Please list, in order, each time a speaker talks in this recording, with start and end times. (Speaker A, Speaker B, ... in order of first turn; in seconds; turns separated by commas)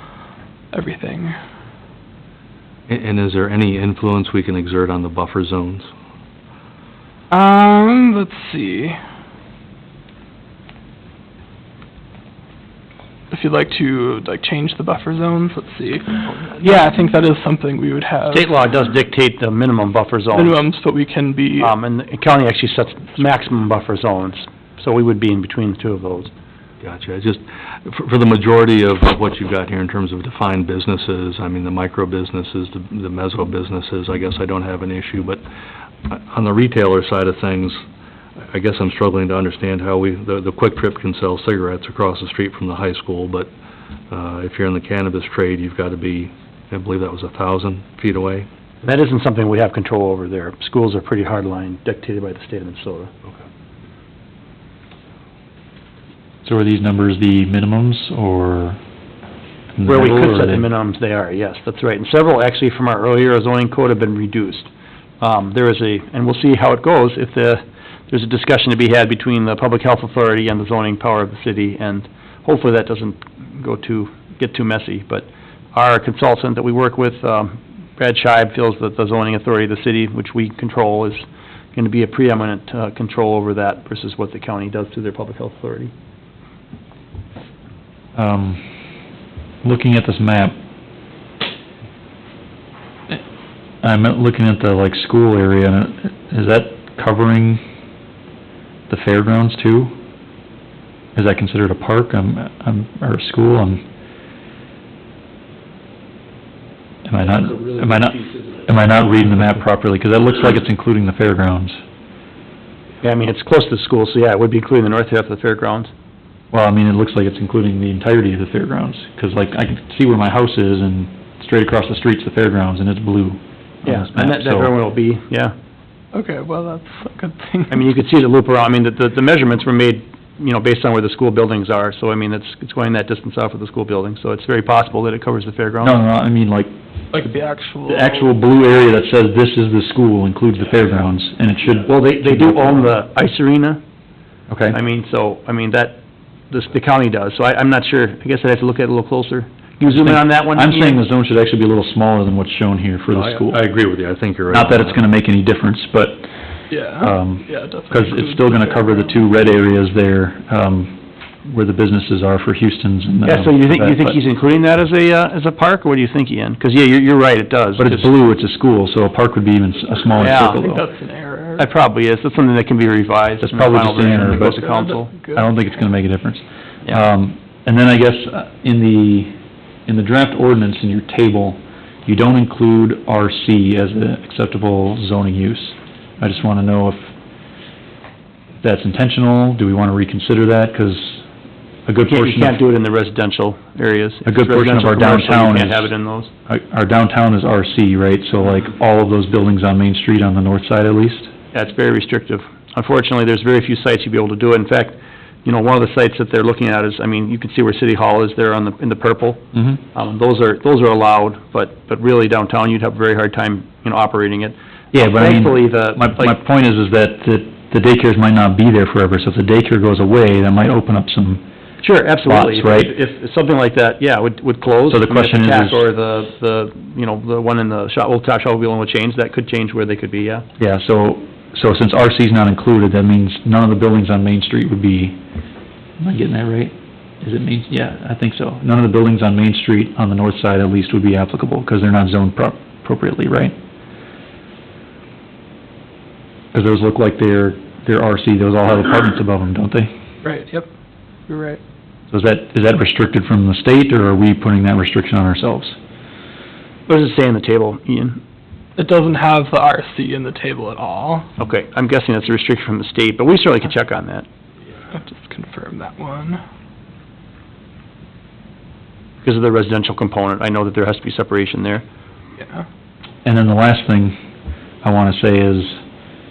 Speaker A: 0.7-1.3, Speaker B: 2.9-5.9, Speaker A: 7.3-9.0, Speaker A: 13.3-18.5, Speaker C: 18.3-20.6, Speaker A: 20.3-21.7, Speaker C: 21.6-26.3, Speaker B: 26.8-35.4, Speaker B: 36.0-37.8, Speaker B: 38.5-43.5, Speaker B: 44.1-48.5, Speaker C: 48.8-53.1, Speaker D: 56.4-58.8, Speaker D: 59.7-60.7, Speaker C: 59.8-85.9, Speaker D: 88.1-88.6, Speaker D: 89.6-90.5, Speaker D: 93.8-97.6, Speaker D: 98.9-100.0, Speaker D: 101.1-103.8, Speaker D: 107.0-111.8, Speaker C: 113.0-115.9, Speaker D: 116.5-124.7, Speaker C: 123.8-125.5, Speaker A: 126.1-127.8, Speaker C: 127.7-135.9, Speaker D: 135.8-136.7, Speaker A: 137.1-138.3, Speaker D: 137.9-142.9, Speaker C: 141.8-143.8, Speaker D: 144.5-144.8, Speaker C: 144.7-151.0, Speaker D: 149.9-153.6, Speaker B: 153.1-155.0, Speaker D: 154.5-164.2, Speaker A: 156.7-159.3, Speaker C: 163.2-168.1, Speaker D: 167.8-170.8, Speaker A: 170.1-171.7, Speaker C: 170.2-170.6, Speaker C: 171.6-175.1, Speaker D: 173.4-174.6, Speaker A: 174.1-175.6, Speaker D: 175.3-179.3, Speaker D: 179.8-187.1, Speaker D: 188.6-191.2, Speaker D: 191.8-192.6, Speaker C: 192.1-196.3, Speaker D: 194.2-195.9, Speaker D: 196.5-201.3, Speaker C: 201.5-209.4, Speaker D: 209.5-209.8, Speaker C: 209.9-216.4, Speaker D: 214.9-221.4, Speaker C: 221.8-230.4, Speaker D: 222.2-222.9, Speaker D: 224.9-225.8, Speaker D: 230.6-235.2, Speaker D: 236.0-243.6, Speaker D: 246.5-249.9, Speaker A: 250.2-250.7, Speaker A: 251.3-251.6, Speaker D: 252.1-255.8, Speaker C: 256.9-258.2, Speaker A: 258.8-261.3, Speaker C: 261.4-264.3, Speaker A: 264.9-266.4, Speaker C: 269.2-271.8, Speaker A: 272.4-272.6, Speaker D: 273.2-274.2, Speaker D: 274.8-275.8